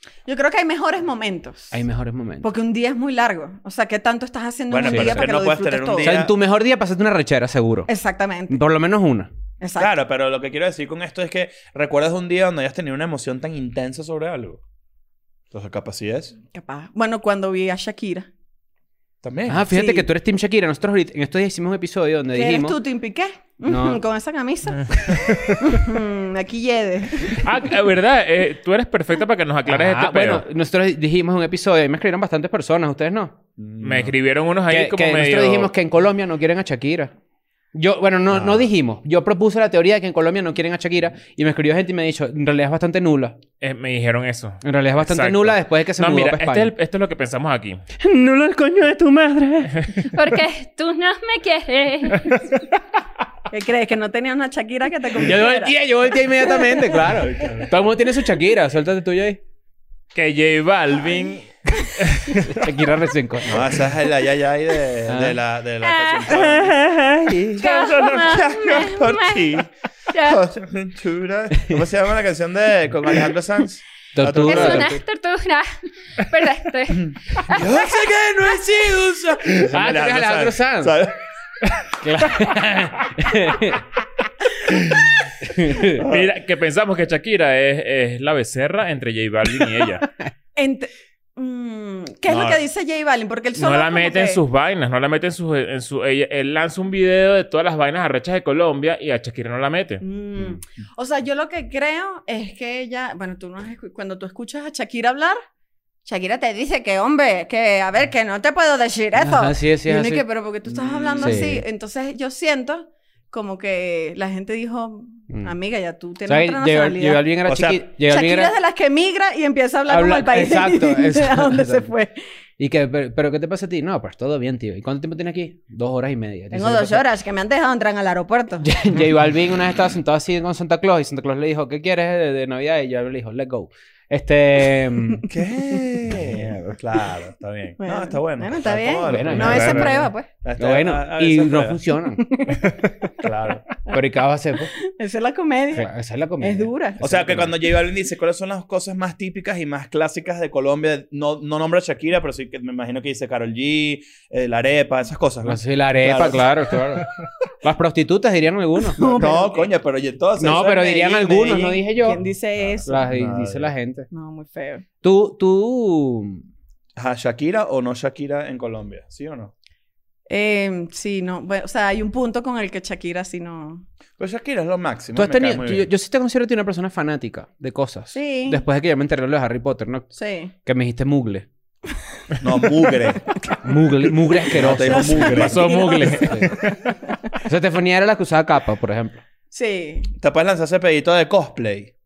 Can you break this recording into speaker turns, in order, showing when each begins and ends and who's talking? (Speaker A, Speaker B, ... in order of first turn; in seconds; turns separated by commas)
Speaker A: 0.3-1.8, Speaker B: 1.7-2.5, Speaker A: 2.4-6.1, Speaker C: 4.7-6.3, Speaker B: 4.8-5.3, Speaker B: 6.0-7.9, Speaker A: 7.9-8.6, Speaker B: 8.5-9.3, Speaker A: 9.6-9.9, Speaker C: 9.8-14.6, Speaker C: 15.5-16.3, Speaker A: 16.5-18.3, Speaker C: 19.2-19.6, Speaker B: 19.5-22.8, Speaker A: 19.7-20.1, Speaker A: 22.3-27.4, Speaker B: 23.6-24.0, Speaker D: 25.1-25.5, Speaker D: 27.3-30.4, Speaker B: 29.7-33.4, Speaker C: 33.6-34.1, Speaker D: 33.8-35.7, Speaker B: 34.7-37.1, Speaker B: 37.7-43.4, Speaker C: 38.3-38.6, Speaker D: 43.6-47.8, Speaker B: 44.6-46.7, Speaker B: 48.0-50.1, Speaker E: 50.0-52.5, Speaker A: 53.5-57.0, Speaker B: 55.1-59.4, Speaker C: 57.1-57.8, Speaker D: 60.1-62.6, Speaker B: 62.3-63.8, Speaker C: 63.5-66.8, Speaker B: 65.0-65.4, Speaker A: 66.0-66.3, Speaker B: 66.3-67.6, Speaker C: 67.5-75.0, Speaker A: 67.6-69.6, Speaker E: 70.1-70.4, Speaker B: 71.5-71.8, Speaker B: 74.1-75.0, Speaker E: 74.4-77.8, Speaker C: 77.4-81.1, Speaker B: 79.7-80.9, Speaker B: 82.0-83.9, Speaker B: 85.4-86.0, Speaker C: 85.9-86.3, Speaker D: 86.0-90.1, Speaker A: 90.5-94.4, Speaker C: 92.3-92.6, Speaker D: 93.5-100.0, Speaker A: 100.0-105.4, Speaker A: 106.0-117.3, Speaker B: 109.2-110.2, Speaker C: 110.7-111.5, Speaker B: 111.2-111.6, Speaker B: 115.3-115.5, Speaker B: 116.3-118.5, Speaker C: 117.5-117.8, Speaker A: 118.0-122.2, Speaker B: 119.9-121.9, Speaker B: 122.6-127.0, Speaker A: 126.5-128.7, Speaker B: 128.6-135.2, Speaker C: 135.3-141.8, Speaker A: 137.8-140.3, Speaker B: 139.0-142.4, Speaker D: 139.4-139.9, Speaker A: 142.2-142.8, Speaker C: 143.2-143.6, Speaker B: 143.9-144.7, Speaker A: 144.7-147.0, Speaker B: 145.7-147.5, Speaker C: 147.0-157.0, Speaker B: 155.4-157.1, Speaker B: 157.6-159.3, Speaker A: 158.9-159.7, Speaker C: 159.0-163.7, Speaker B: 160.4-162.2, Speaker A: 161.4-163.1, Speaker B: 162.8-164.1, Speaker A: 164.1-164.8, Speaker B: 165.0-166.4, Speaker C: 166.9-169.5, Speaker A: 170.3-173.8, Speaker C: 174.2-175.9, Speaker B: 175.1-180.1, Speaker A: 178.1-178.6, Speaker A: 180.1-180.5, Speaker B: 180.6-181.4, Speaker C: 182.4-183.4, Speaker B: 183.6-185.5, Speaker C: 184.4-185.8, Speaker A: 184.8-186.5, Speaker D: 185.3-186.9, Speaker B: 186.2-186.5, Speaker B: 187.4-189.2, Speaker A: 189.5-190.1, Speaker C: 190.2-191.9